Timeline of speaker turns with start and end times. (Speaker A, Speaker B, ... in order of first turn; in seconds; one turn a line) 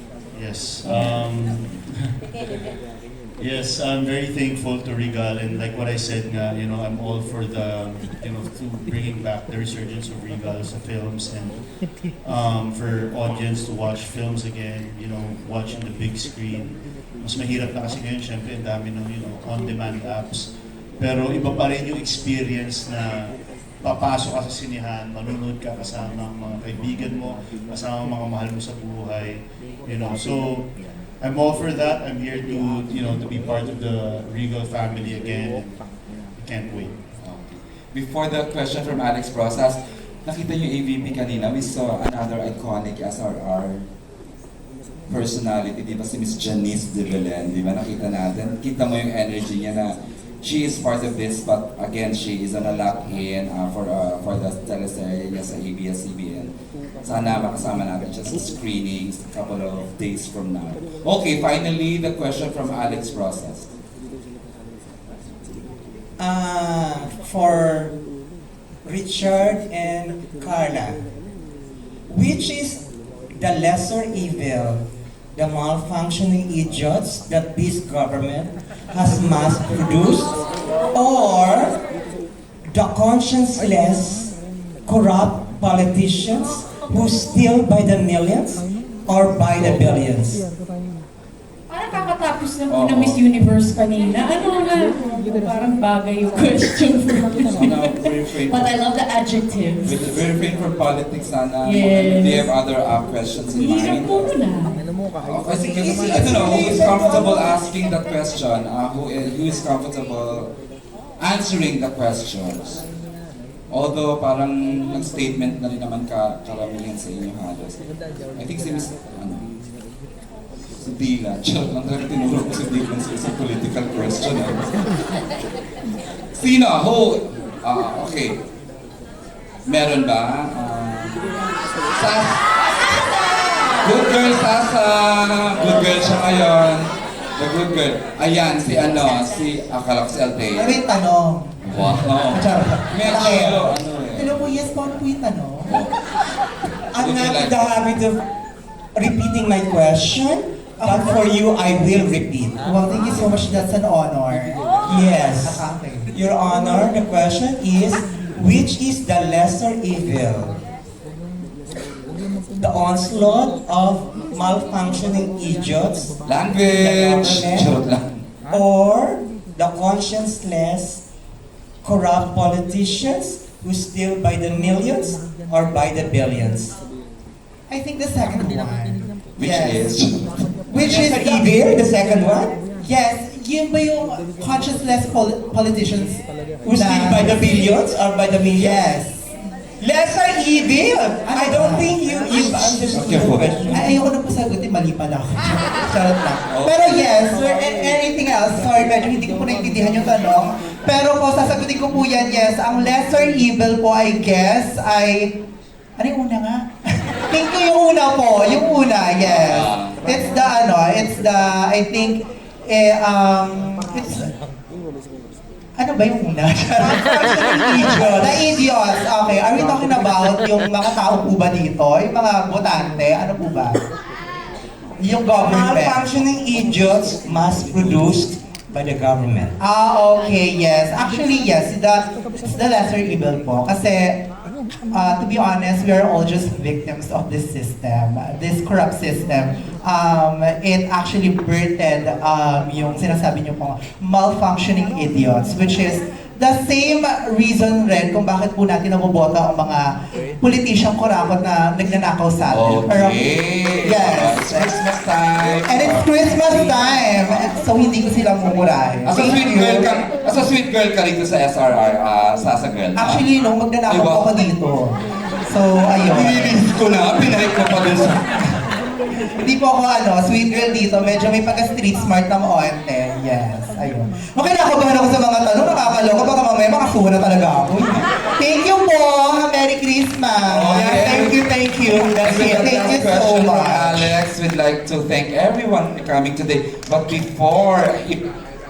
Speaker A: 0.3-1.9
Speaker B: 0.8-1.2
Speaker A: 3.4-11.6
Speaker A: 12.2-37.0
Speaker B: 37.2-43.8
Speaker B: 45.1-56.5
Speaker B: 57.0-63.7
Speaker C: 66.2-68.0
Speaker C: 68.8-71.0
Speaker C: 72.1-72.8
Speaker C: 73.3-80.4
Speaker C: 80.9-81.8
Speaker C: 82.7-84.3
Speaker C: 84.8-90.4
Speaker B: 89.5-90.0
Speaker D: 91.7-100.2
Speaker B: 92.7-93.2
Speaker B: 97.4-98.8
Speaker B: 99.8-104.3
Speaker D: 101.6-102.5
Speaker D: 103.5-104.8
Speaker B: 105.2-110.5
Speaker C: 105.6-107.5
Speaker B: 111.2-112.8
Speaker B: 113.7-117.8
Speaker B: 118.3-119.5
Speaker B: 120.8-124.7
Speaker B: 126.3-128.4
Speaker B: 129.7-131.2
Speaker B: 131.9-132.5
Speaker B: 133.8-140.8
Speaker E: 140.5-141.5
Speaker B: 141.6-144.4
Speaker E: 142.3-145.7
Speaker B: 145.6-145.9
Speaker C: 146.9-148.2
Speaker B: 146.9-147.9
Speaker C: 148.9-152.6
Speaker E: 150.8-151.2
Speaker E: 152.6-154.7
Speaker C: 154.8-160.6
Speaker E: 155.4-156.1
Speaker C: 162.6-166.1
Speaker B: 166.2-168.3
Speaker C: 166.7-167.7
Speaker C: 168.5-171.0
Speaker C: 171.8-176.7
Speaker E: 177.7-179.9
Speaker B: 179.4-180.4
Speaker E: 180.7-181.5
Speaker C: 180.8-182.6
Speaker E: 182.8-186.2
Speaker C: 186.6-188.8
Speaker E: 186.7-187.6
Speaker E: 188.6-189.3
Speaker C: 189.8-193.9
Speaker E: 191.2-191.9
Speaker B: 192.9-193.9
Speaker E: 193.7-205.4
Speaker B: 196.5-197.1
Speaker E: 206.0-214.3
Speaker B: 209.2-210.0
Speaker E: 215.7-223.9
Speaker C: 216.8-218.6
Speaker E: 225.0-226.0
Speaker C: 225.4-229.6
Speaker E: 229.6-234.2
Speaker E: 234.9-253.3
Speaker B: 252.4-257.5
Speaker E: 253.8-254.7
Speaker E: 255.6-259.9
Speaker B: 259.0-263.3
Speaker E: 262.9-266.6
Speaker B: 263.9-264.3
Speaker B: 265.9-268.2
Speaker E: 269.4-284.2
Speaker B: 280.4-288.2